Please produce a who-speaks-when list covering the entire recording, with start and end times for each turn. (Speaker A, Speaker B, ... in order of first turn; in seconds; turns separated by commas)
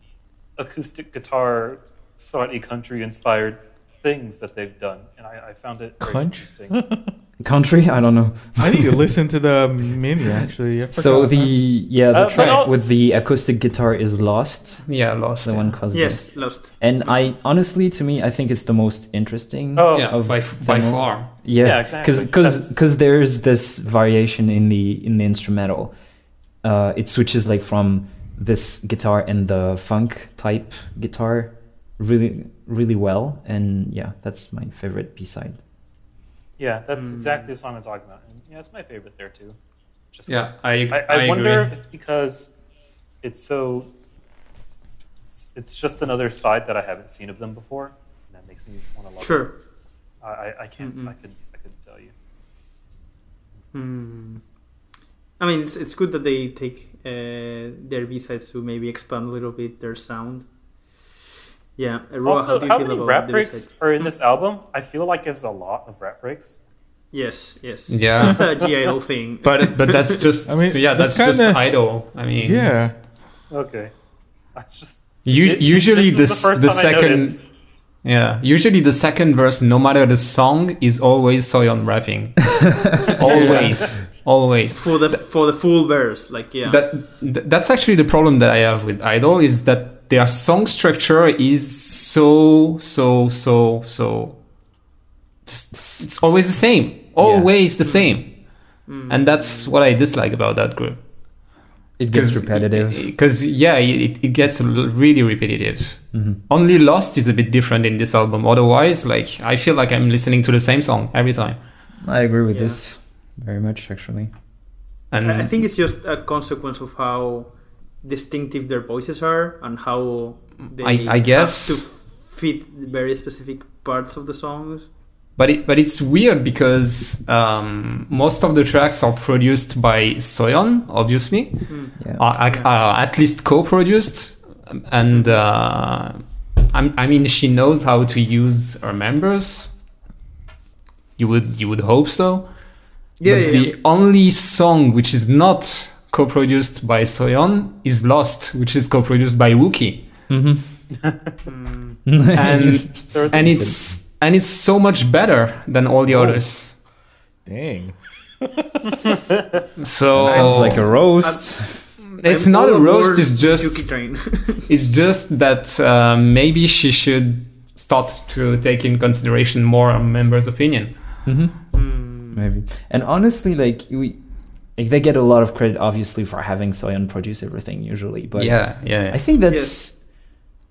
Speaker A: 0.6-6.8, Speaker B: 6.0-7.1, Speaker C: 7.4-9.1, Speaker B: 8.6-11.5, Speaker C: 10.3-14.8, Speaker A: 12.1-12.7, Speaker D: 12.3-12.7, Speaker D: 14.8-15.8, Speaker C: 15.4-25.9, Speaker E: 15.9-16.7, Speaker A: 19.8-20.1, Speaker D: 19.9-21.3, Speaker A: 21.6-22.8, Speaker C: 26.6-35.6, Speaker A: 36.6-39.6, Speaker E: 36.9-37.5, Speaker A: 40.1-42.5, Speaker D: 40.3-41.7, Speaker A: 43.2-43.9, Speaker A: 45.3-49.5, Speaker E: 49.2-49.5, Speaker A: 50.2-52.1, Speaker E: 50.8-51.1, Speaker E: 53.7-54.4, Speaker E: 55.4-60.5, Speaker E: 61.8-63.7, Speaker A: 62.2-66.6, Speaker E: 67.1-70.2, Speaker D: 67.9-68.5, Speaker A: 68.3-68.6, Speaker D: 69.4-72.7, Speaker B: 70.5-71.6, Speaker B: 72.3-72.9, Speaker A: 73.5-73.9, Speaker A: 74.6-77.4, Speaker D: 75.2-77.4, Speaker D: 78.0-85.2, Speaker B: 83.2-84.0, Speaker A: 83.3-83.9, Speaker E: 84.7-86.8, Speaker D: 86.7-94.4, Speaker D: 95.5-98.3, Speaker C: 95.7-96.5, Speaker C: 97.2-97.5, Speaker E: 97.8-98.1, Speaker E: 98.9-99.7, Speaker D: 99.1-101.0, Speaker C: 102.0-103.1, Speaker D: 102.1-111.6, Speaker C: 106.1-106.4, Speaker C: 112.0-114.3, Speaker E: 112.5-112.8, Speaker D: 115.1-115.6, Speaker E: 115.2-117.5, Speaker E: 118.0-124.9, Speaker D: 120.8-121.8, Speaker D: 125.4-139.7, Speaker E: 131.7-131.9, Speaker E: 135.1-135.4, Speaker D: 141.2-142.5, Speaker E: 143.2-143.7, Speaker D: 143.2-150.1, Speaker C: 150.3-150.6, Speaker E: 151.5-152.0, Speaker C: 152.1-153.8, Speaker D: 152.3-156.8, Speaker A: 152.8-153.6, Speaker B: 156.1-156.4, Speaker B: 157.4-158.7, Speaker D: 159.8-160.9, Speaker C: 160.1-161.9, Speaker E: 160.2-161.5, Speaker D: 162.1-163.9, Speaker E: 162.2-164.7, Speaker D: 164.7-170.9, Speaker C: 171.3-171.6, Speaker E: 171.7-172.5, Speaker C: 172.3-174.2, Speaker C: 174.8-179.9, Speaker D: 178.4-179.2, Speaker E: 179.5-179.8